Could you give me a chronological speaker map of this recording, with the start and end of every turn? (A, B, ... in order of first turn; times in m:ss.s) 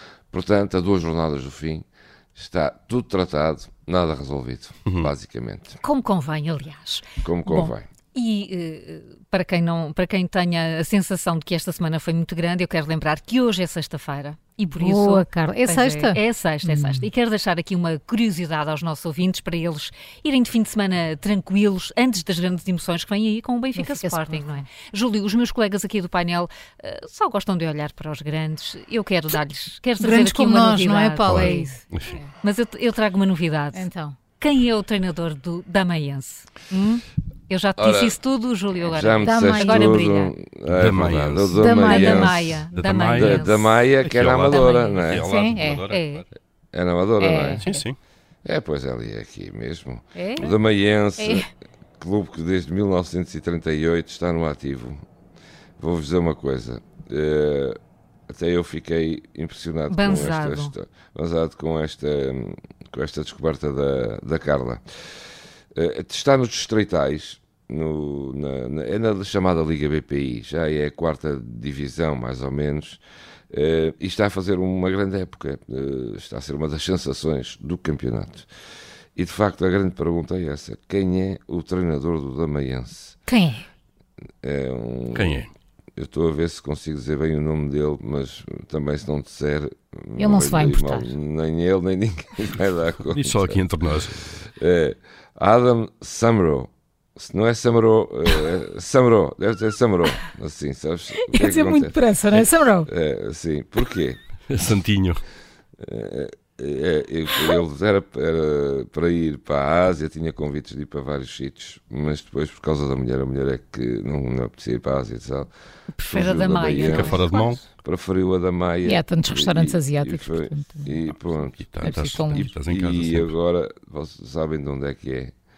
0:00.3-0:05.8 A
0:05.8-0:07.0 B
0:07.2-0:07.9 A
0:08.1-0:33.9 B
0:14.8-0:17.1 C
0:23.8-0:24.6 C
0:30.0-0:31.8 C
0:31.2-0:32.2 D
0:33.7-0:34.2 C
0:34.4-0:40.3 B
0:37.8-0:38.2 A
0:38.8-0:42.6 A
0:39.2-0:40.0 C
0:40.7-0:46.2 D
0:41.6-0:42.2 C
0:41.7-0:45.0 B
0:43.2-0:45.3 A
0:45.2-0:45.8 C
0:45.9-0:46.2 B
0:46.7-0:47.6 A
0:47.2-0:47.8 C
0:47.6-0:48.0 D
0:48.4-0:51.5 A
0:50.2-0:50.5 C
0:51.2-0:51.5 C
0:52.0-0:55.0 A
0:55.8-0:57.8 A
0:58.3-1:04.8 A
0:59.9-1:00.7 B
1:05.7-1:18.5 A
1:19.2-1:23.2 A
1:23.3-1:23.6 C
1:24.4-1:25.4 A
1:25.1-1:25.5 D
1:26.0-1:33.6 A
1:30.2-1:31.1 C
1:33.1-1:34.3 D
1:34.3-1:44.2 A
1:41.2-1:42.9 C
1:44.5-1:45.2 D
1:45.8-1:55.5 A
1:56.0-1:57.6 B
1:56.1-1:57.2 A
1:56.8-1:57.6 D
1:57.8-2:05.3 A
1:58.8-2:00.9 C
2:01.4-2:03.3 D
2:01.8-2:02.5 C